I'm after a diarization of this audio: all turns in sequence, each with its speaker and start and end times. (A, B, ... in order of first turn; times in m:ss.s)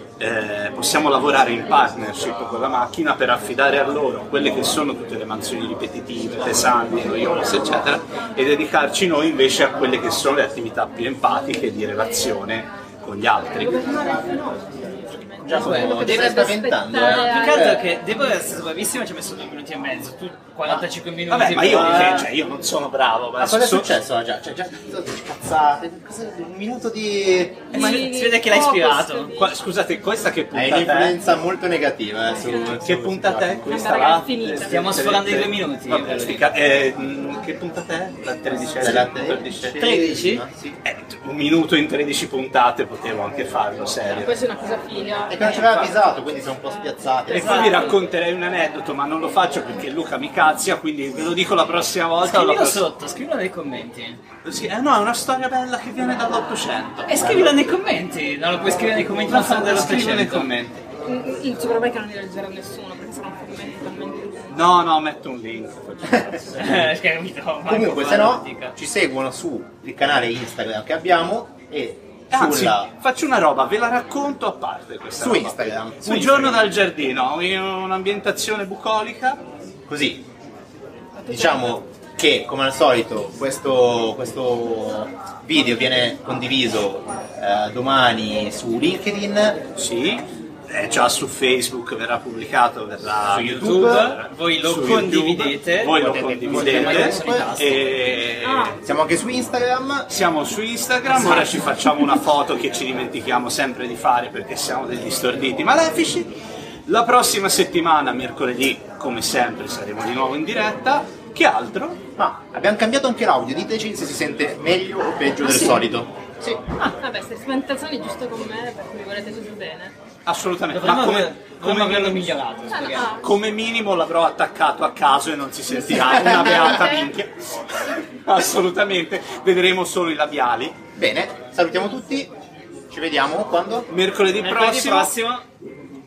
0:00.2-0:13.8 A
0:13.5-0:17.8 B
0:15.4-0:17.8 C
0:15.5-0:22.3 D
0:21.3-0:23.9 A
0:21.9-0:22.2 C
0:23.4-0:27.7 C
0:27.7-0:29.6 B
0:27.7-0:28.1 A
0:27.7-0:29.3 D
0:29.4-0:31.1 A
0:30.5-0:33.6 C
0:32.2-0:32.8 B
0:32.6-0:39.9 A
0:33.6-0:35.0 B
0:34.6-0:36.4 D
0:38.8-0:40.8 C
0:39.7-0:40.4 D
0:40.8-0:44.3 A
0:44.1-0:45.6 B
0:45.3-0:47.7 C
0:45.4-0:46.0 A
0:46.6-0:47.9 B
0:47.3-0:52.9 A
0:47.3-0:47.9 D
0:52.2-0:54.2 D
0:54.4-0:57.5 A
0:57.1-1:00.5 D
0:59.2-1:00.8 A
1:01.0-1:04.6 B
1:04.5-1:06.9 A
1:06.6-1:08.8 D
1:07.6-1:12.9 C
1:12.3-1:19.4 A
1:15.2-1:16.7 C
1:19.9-1:20.2 C
1:21.2-1:21.8 B
1:21.3-1:29.6 C
1:29.8-1:38.8 A
1:33.3-1:37.9 D
1:33.3-1:34.1 C
1:36.0-1:37.6 C
1:38.4-1:38.8 B
1:38.8-1:40.1 C
1:40.1-1:46.3 A
1:46.9-1:52.0 A
1:52.2-1:56.6 C
1:55.4-1:55.8 B
1:56.8-1:59.9 B
2:00.2-2:02.4 A
2:00.7-2:03.1 D
2:02.7-2:03.3 B
2:03.2-2:10.8 A
2:05.7-2:07.2 B
2:11.0-2:12.3 C
2:12.9-2:13.9 C
2:13.9-2:15.1 A
2:14.4-2:15.4 D